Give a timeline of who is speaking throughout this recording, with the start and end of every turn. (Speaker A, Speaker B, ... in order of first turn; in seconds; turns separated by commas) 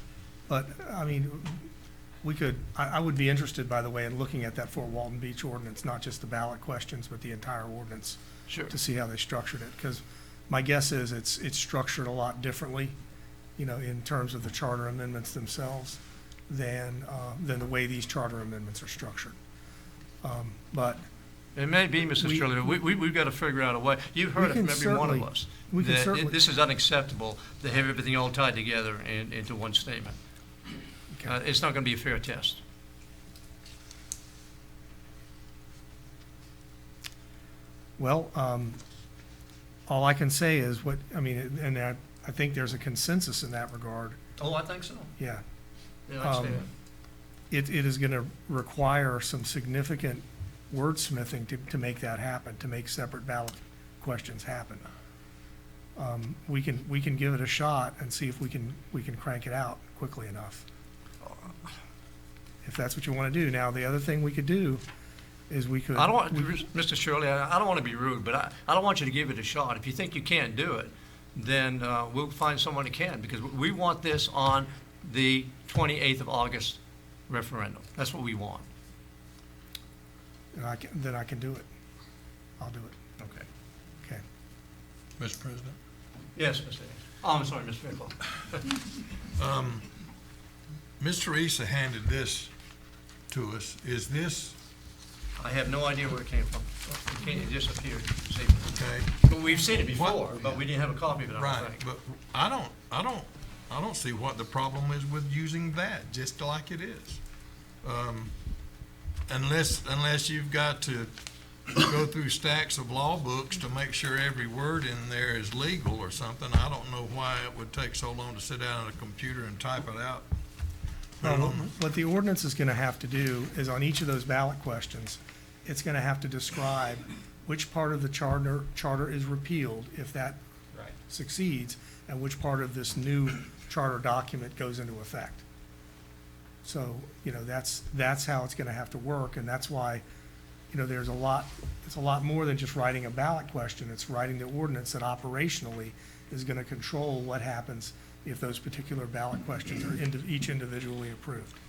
Speaker A: 0.5-1.7, Speaker A: 2.2-8.2, Speaker B: 8.5-8.7, Speaker A: 8.7-12.9, Speaker A: 13.6-19.4, Speaker A: 20.2-21.0, Speaker B: 21.5-30.2, Speaker A: 22.2-22.6, Speaker A: 24.4-26.4, Speaker B: 31.2-32.6, Speaker A: 38.0-38.8, Speaker A: 39.9-44.2, Speaker B: 44.4-45.1, Speaker B: 46.1-46.7, Speaker A: 46.2-46.6, Speaker A: 47.5-54.9, Speaker A: 56.0-60.6, Speaker B: 61.2-61.6, Speaker A: 62.6-64.8, Speaker A: 65.5-66.6, Speaker B: 65.9-78.7, Speaker A: 80.5-81.7, Speaker A: 82.6-82.9, Speaker B: 83.2-83.5, Speaker C: 85.2-85.8, Speaker B: 86.3-88.7, Speaker C: 89.4-89.9, Speaker C: 91.0-92.5, Speaker C: 93.3-94.5, Speaker B: 95.4-101.8, Speaker C: 98.7-99.1, Speaker C: 99.7-100.5, Speaker C: 101.3-107.2, Speaker C: 107.8-108.3, Speaker C: 109.3-111.1, Speaker C: 111.7-120.2, Speaker C: 121.2-121.7, Speaker A: 121.2-130.4, Speaker A: 131.1-135.4, Speaker A: 136.6-140.0, Speaker A: 140.7-151.5